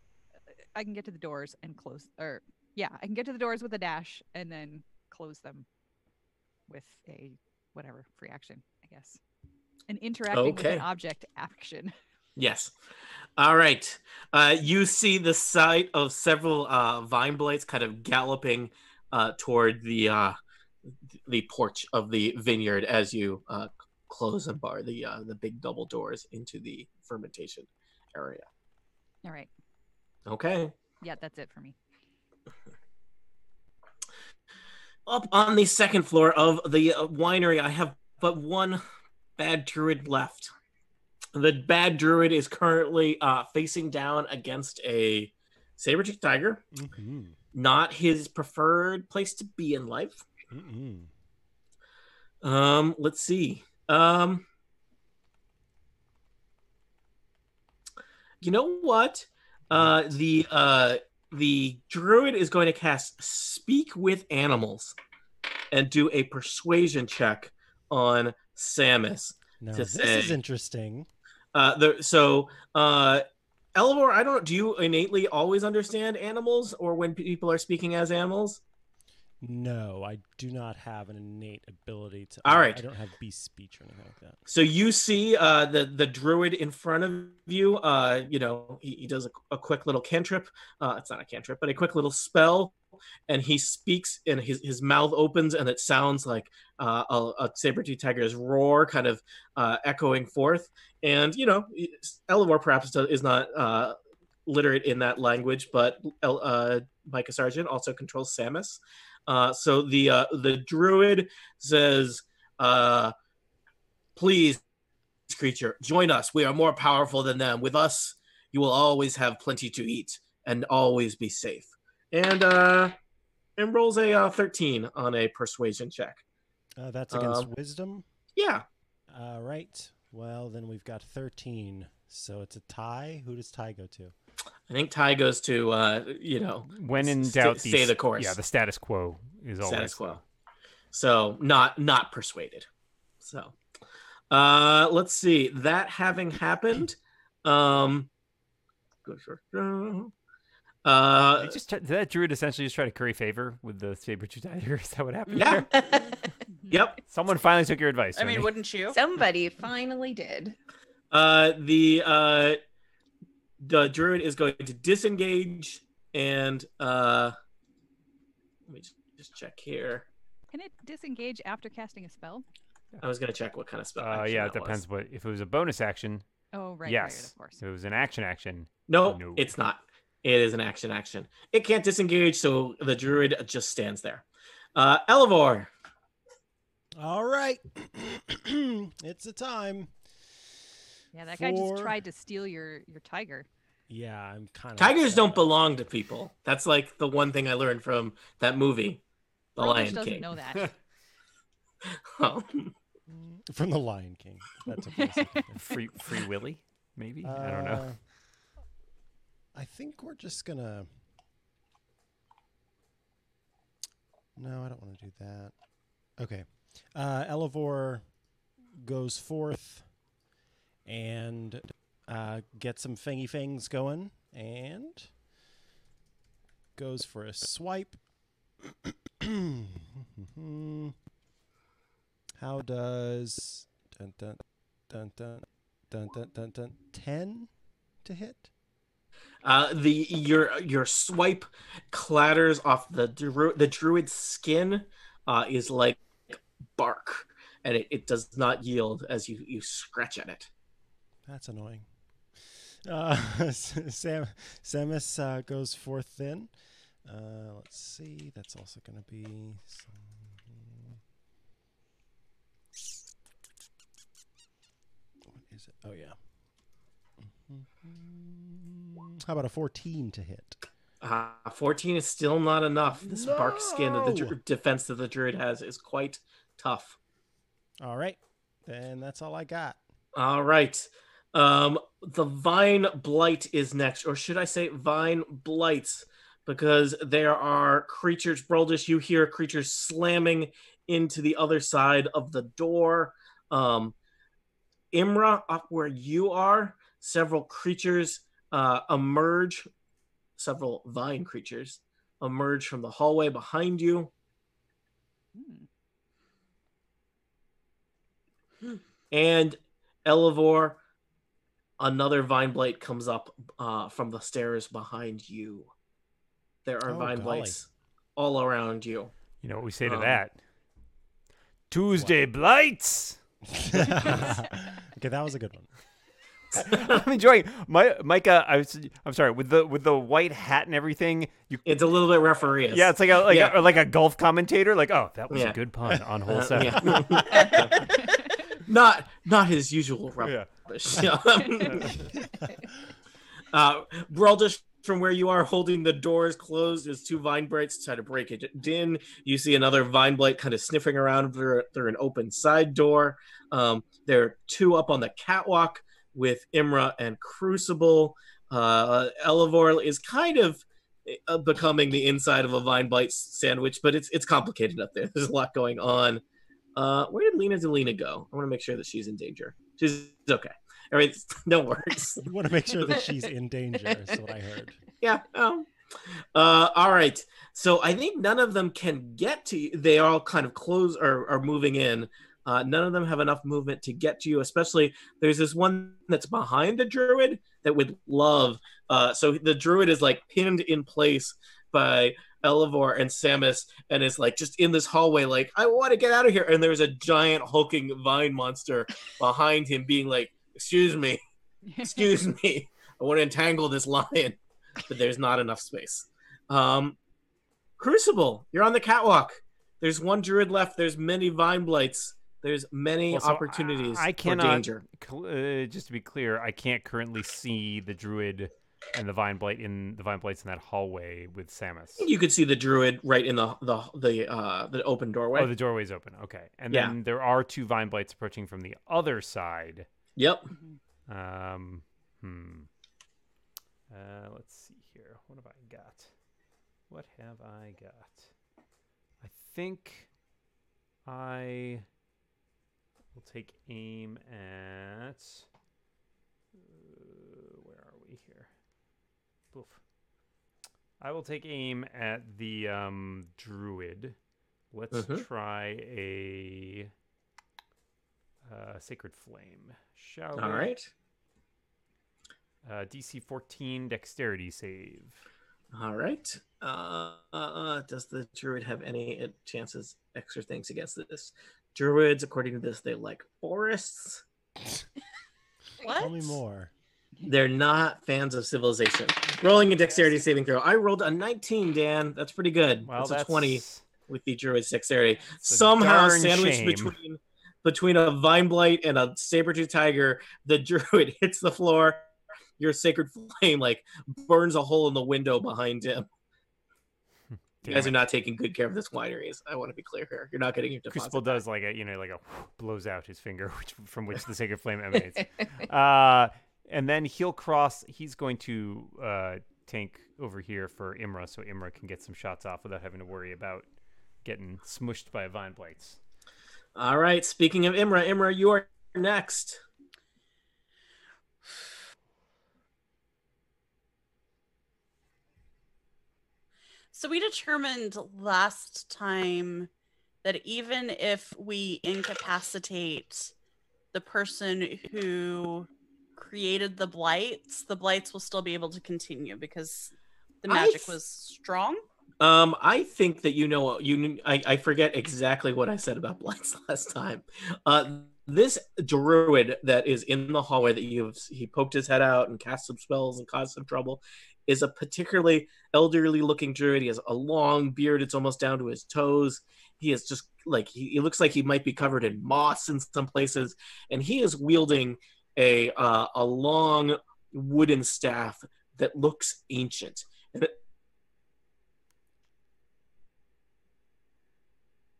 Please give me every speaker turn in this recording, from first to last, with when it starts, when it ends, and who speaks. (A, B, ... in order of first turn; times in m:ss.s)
0:00.7-0:05.6 A
0:06.7-0:09.2 A
0:09.9-0:11.9 A
0:10.3-0:10.8 B
0:12.4-0:12.7 B
0:13.4-0:20.4 B
0:21.1-0:28.4 B
0:29.2-0:29.5 A
0:30.2-0:30.7 B
0:31.0-0:31.8 A
0:35.1-0:38.8 B
0:39.4-0:40.5 B
0:41.3-0:46.6 B
0:46.7-0:47.4 C
0:47.5-0:50.2 B
0:50.5-0:51.1 C
0:52.4-0:54.4 B
0:58.4-1:05.0 B
1:05.7-1:10.4 B
1:09.6-1:11.1 C
1:11.5-1:18.6 B
1:19.4-1:24.4 C
1:22.4-1:22.8 B
1:24.5-1:32.8 B
1:33.3-1:43.9 B
1:44.4-1:53.1 B
1:54.2-1:54.6 B
1:55.3-2:03.0 B
2:03.6-2:06.2 B
2:06.8-2:08.0 C
2:07.1-2:07.5 B
2:08.4-2:08.6 B
2:09.1-2:14.1 C
2:14.7-2:18.4 B
2:16.7-2:20.2 D
2:19.6-2:20.2 B
2:20.9-2:22.7 B
2:23.2-2:23.5 B
2:24.3-2:28.1 B
2:29.0-2:30.1 B
2:30.8-2:31.6 B
2:31.4-2:35.8 D
2:35.3-2:36.1 E
2:35.4-2:35.7 B
2:35.8-2:36.1 F
2:36.7-2:37.0 B
2:37.1-2:38.5 D
2:38.2-2:39.0 E
2:38.9-2:40.6 F
2:41.1-2:42.6 B
2:43.6-2:47.3 B
2:48.7-2:50.1 B
2:50.5-2:52.4 A
2:53.0-2:54.8 B
2:54.0-2:56.2 D
2:56.5-2:57.6 A
2:56.8-2:59.5 D
2:58.9-3:05.7 B
3:07.0-3:09.9 C
3:11.1-3:13.5 A
3:11.4-3:12.0 C
3:13.9-3:15.5 C
3:14.8-3:19.0 B
3:19.6-3:20.3 B
3:19.6-3:20.7 A
3:22.1-3:22.7 B
3:23.1-3:25.8 C
3:24.9-3:25.4 A
3:25.6-3:27.9 D
3:27.2-3:28.0 C
3:29.5-3:30.9 C
3:34.4-3:35.5 C
3:36.2-3:38.1 C
3:38.8-3:39.8 C
3:40.8-3:45.1 C
3:46.8-3:48.0 C
3:48.6-3:51.0 C
3:52.4-3:57.5 C
3:58.0-3:58.5 C
3:59.4-4:10.5 B
4:11.2-4:11.8 C
4:12.5-4:16.5 C
4:17.0-4:21.0 C
4:25.3-4:26.2 C
4:27.2-4:30.6 C
4:31.0-4:37.0 B
4:33.0-4:34.4 C
4:37.8-4:39.8 C
4:40.1-4:53.9 B
4:54.9-4:59.7 B
5:00.4-5:04.1 B
5:05.3-5:05.7 A
5:09.1-5:10.8 B
5:11.8-5:15.7 B
5:16.6-5:19.1 B
5:16.8-5:17.6 C
5:19.4-5:20.4 D
5:19.8-5:20.2 B
5:21.7-5:23.2 D
5:23.5-5:25.7 C
5:26.5-5:27.0 B
5:26.6-5:31.8 D
5:31.6-5:33.6 B
5:32.7-5:37.7 D
5:35.3-5:35.6 B
5:36.3-5:42.0 B
5:36.9-5:37.4 C
5:40.2-5:41.1 D
5:41.6-5:42.1 D
5:43.5-6:06.2 B
6:06.8-6:12.3 B
6:12.2-6:14.8 C
6:15.0-6:15.7 B
6:16.3-6:41.2 B
6:41.6-6:42.1 A
6:41.8-6:47.0 B
6:47.8-6:54.8 B
6:53.1-7:02.1 D
7:02.0-7:05.5 B
7:05.3-7:09.9 D
7:10.2-7:10.5 B
7:10.5-7:10.8 A
7:11.1-7:12.7 D
7:13.9-7:16.1 D
7:16.9-7:18.3 D
7:19.2-7:20.1 D
7:21.0-7:21.8 D
7:23.1-7:25.4 D
7:26.6-7:28.5 D
7:29.5-7:29.8 D
7:31.0-7:34.2 D
7:34.7-7:36.9 D
7:34.9-7:35.2 B
7:38.4-7:40.7 D
7:40.4-7:40.9 B
7:42.6-7:45.2 D
7:45.7-7:54.2 B
7:55.8-7:56.3 E
7:55.9-7:56.7 C
7:57.2-8:16.1 B
8:02.8-8:03.8 D
8:05.4-8:06.9 D
8:17.6-8:18.0 D
8:17.6-8:21.4 B
8:20.9-8:33.7 D
8:34.2-8:36.0 D
8:36.8-8:39.6 B
8:46.9-8:49.7 E
8:50.2-8:53.3 E
8:53.9-9:01.8 E
9:00.5-9:01.0 B
9:02.2-9:30.5 B